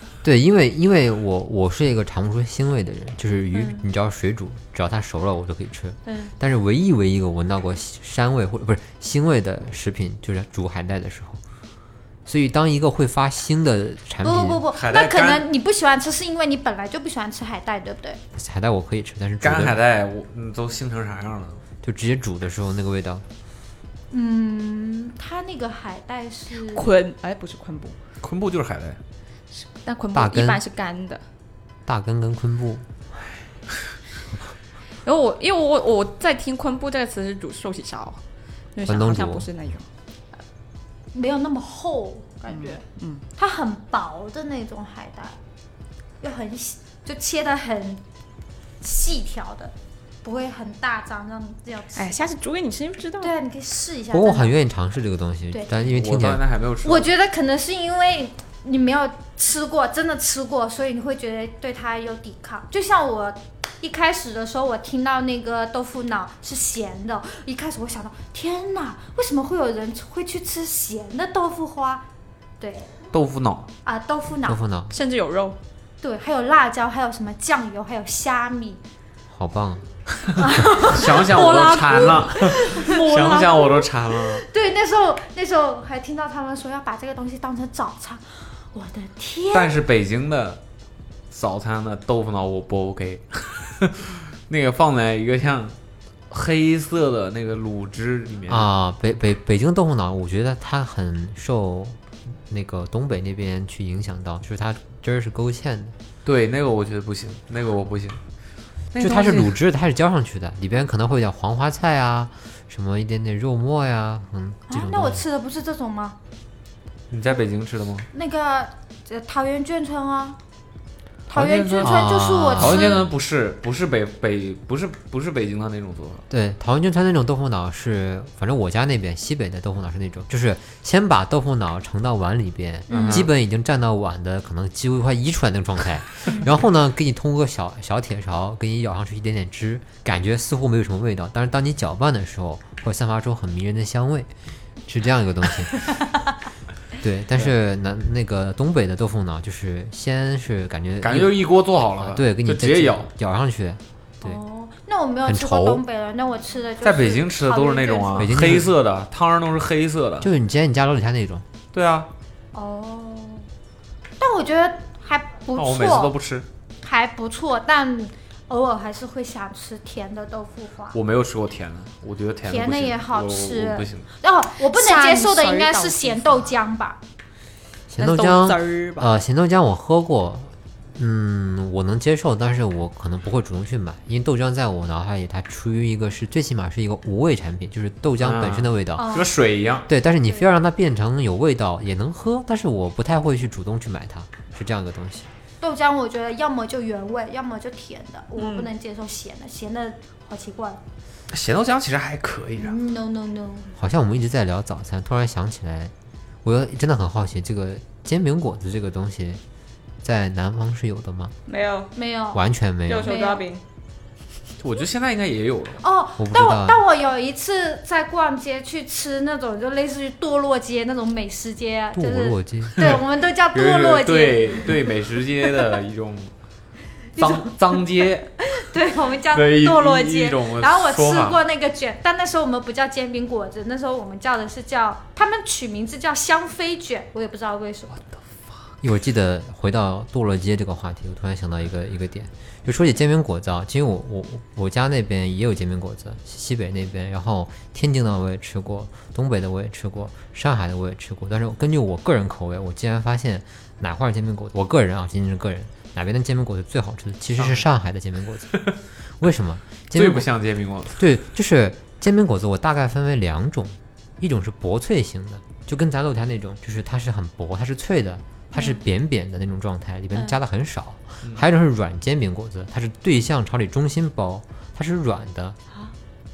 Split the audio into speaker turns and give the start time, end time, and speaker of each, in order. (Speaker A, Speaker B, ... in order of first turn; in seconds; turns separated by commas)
Speaker A: 0.2-11.4, Speaker B: 3.5-3.8, Speaker B: 6.0-6.3, Speaker A: 12.2-14.6, Speaker B: 14.2-18.2, Speaker C: 14.7-15.4, Speaker A: 18.3-19.8, Speaker C: 19.4-21.6, Speaker A: 21.8-23.2, Speaker B: 24.1-26.9, Speaker D: 26.7-27.9, Speaker C: 28.2-29.0, Speaker D: 29.6-31.2, Speaker A: 30.1-30.6, Speaker A: 31.9-32.8, Speaker D: 35.0-38.2, Speaker D: 38.7-39.9, Speaker A: 38.8-39.5, Speaker B: 41.1-42.8, Speaker D: 42.5-43.2, Speaker B: 43.4-45.4, Speaker B: 46.2-48.0, Speaker B: 48.8-52.3, Speaker D: 52.0-53.3, Speaker B: 53.2-54.5, Speaker A: 54.1-56.4, Speaker C: 55.8-57.1, Speaker B: 56.8-72.0, Speaker B: 72.6-72.9, Speaker C: 73.1-73.7, Speaker B: 73.8-74.6, Speaker A: 74.4-74.9, Speaker D: 74.9-75.6, Speaker B: 76.0-78.8, Speaker A: 79.3-79.8, Speaker B: 80.4-89.8, Speaker C: 80.8-84.4, Speaker D: 81.2-83.4, Speaker C: 89.5-90.6, Speaker C: 91.3-95.8, Speaker C: 96.3-98.7, Speaker A: 98.5-106.0, Speaker C: 106.2-108.2, Speaker C: 108.9-109.6, Speaker A: 109.0-115.2, Speaker B: 114.7-116.2, Speaker C: 117.1-118.1, Speaker B: 118.1-120.4, Speaker B: 121.3-123.0, Speaker C: 121.3-126.2, Speaker A: 121.8-123.0, Speaker A: 126.3-144.3, Speaker B: 132.9-133.3, Speaker C: 132.9-133.3, Speaker A: 144.9-145.9, Speaker A: 147.0-151.4, Speaker C: 151.0-153.1, Speaker A: 152.0-154.4, Speaker B: 154.2-158.3, Speaker A: 155.2-155.8, Speaker C: 156.8-160.3, Speaker A: 158.2-158.7, Speaker A: 160.2-161.4, Speaker C: 161.7-162.1, Speaker B: 162.5-163.5, Speaker B: 164.2-166.1, Speaker C: 165.6-166.5, Speaker B: 166.8-171.0, Speaker C: 170.9-174.1, Speaker B: 172.5-177.0, Speaker D: 174.7-176.5, Speaker A: 177.9-189.2, Speaker D: 178.0-179.1, Speaker C: 188.2-189.9, Speaker B: 189.0-189.3, Speaker A: 189.9-195.3, Speaker B: 195.6-200.8, Speaker D: 198.4-198.7, Speaker C: 201.3-202.8, Speaker B: 202.6-203.7, Speaker A: 203.7-205.9, Speaker A: 206.4-209.4, Speaker A: 210.0-211.3, Speaker D: 211.4-211.9, Speaker B: 211.9-212.4, Speaker A: 212.3-213.2, Speaker D: 212.9-213.6, Speaker B: 213.0-213.4, Speaker C: 214.6-215.8, Speaker B: 215.8-224.8, Speaker A: 216.2-216.8, Speaker A: 221.9-223.0, Speaker C: 223.5-226.3, Speaker B: 227.2-227.8, Speaker C: 227.2-228.3, Speaker B: 228.5-237.9, Speaker C: 229.3-231.4, Speaker A: 238.8-258.7, Speaker C: 257.4-257.6, Speaker A: 259.2-260.3, Speaker C: 259.9-261.1, Speaker A: 261.0-275.6, Speaker B: 268.5-268.8